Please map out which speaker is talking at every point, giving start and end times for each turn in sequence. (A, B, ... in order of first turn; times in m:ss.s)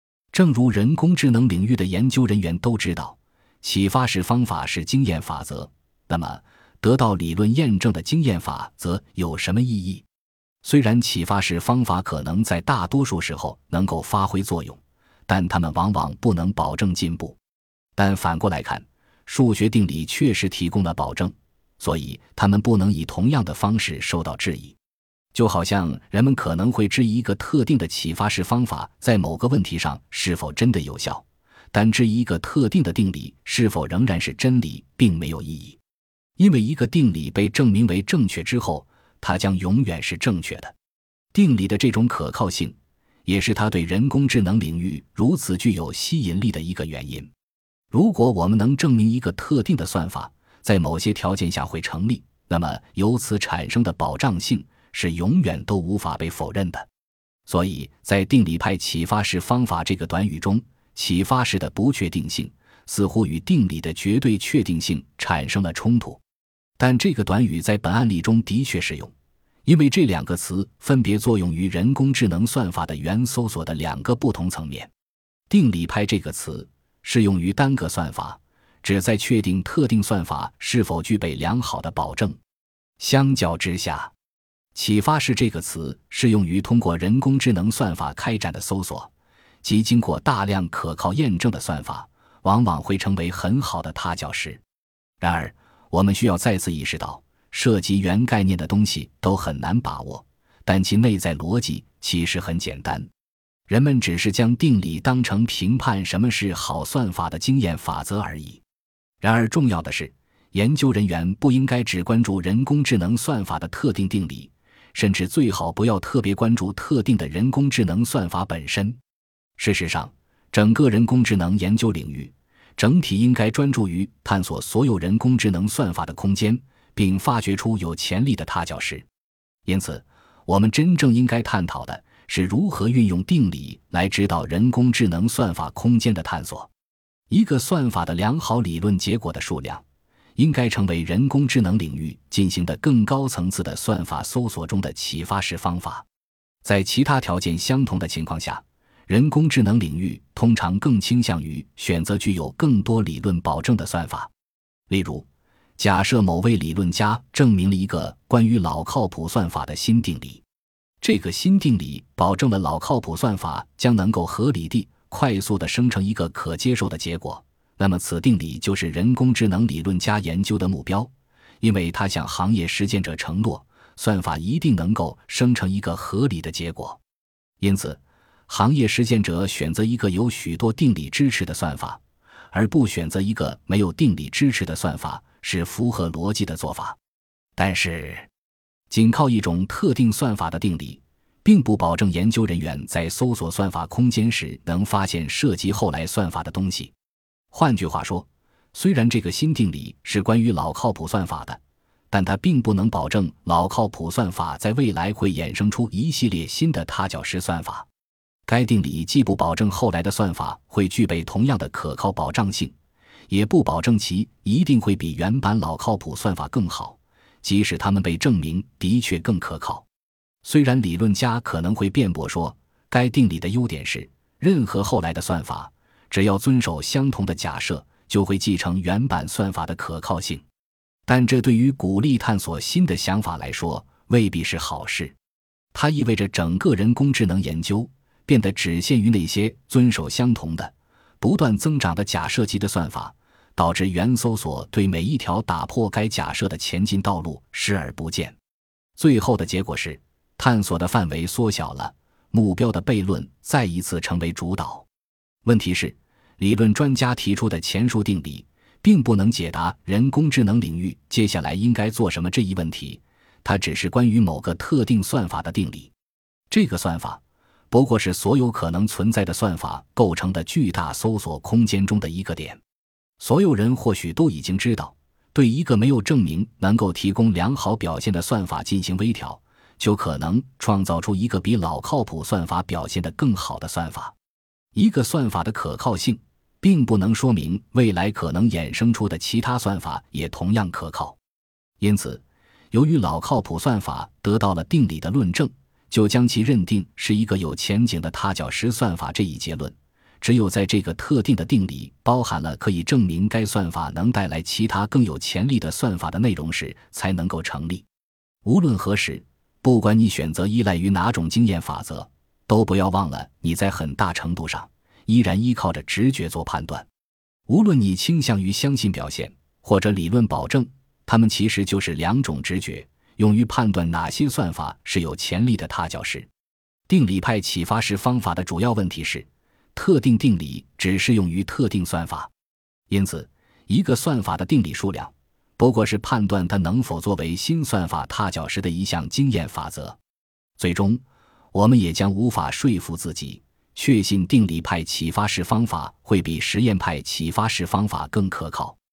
0:00.3-0:10.1 A
0:10.6-0:17.4 A
0:18.0-0:24.8 A
0:25.3-0:35.8 A
0:36.4-0:40.7 A
0:41.3-0:47.3 A
0:47.9-0:56.9 A
0:57.5-1:06.2 A
1:06.8-1:09.1 A
1:09.6-1:14.9 A
1:15.5-1:22.4 A
1:23.0-1:24.1 A
1:24.7-1:29.1 A
1:29.6-1:34.6 A
1:35.2-1:43.1 A
1:43.7-1:48.6 A
1:49.2-1:59.0 A
1:59.6-2:09.1 A
2:09.7-2:16.7 A
2:17.3-2:19.8 A
2:20.4-2:26.1 A
2:26.6-2:34.3 A
2:34.9-2:35.3 A
2:35.8-2:40.4 A
2:41.0-2:57.0 A
2:57.6-3:02.0 A
3:02.5-3:07.0 A
3:07.6-3:08.3 A
3:08.9-3:16.9 A
3:17.5-3:21.6 A
3:22.1-3:27.9 A
3:28.5-3:32.7 A
3:33.3-3:39.9 A
3:40.4-3:50.4 A
3:51.1-3:55.2 A
3:55.7-4:08.4 A
4:09.0-4:14.9 A
4:15.4-4:25.9 A
4:26.5-4:32.6 A
4:33.2-4:44.2 A
4:44.7-4:51.2 A
4:51.8-5:07.8 A
5:08.4-5:16.9 A
5:17.5-5:26.3 A
5:26.9-5:32.3 A
5:32.9-5:40.0 A
5:40.6-5:48.8 A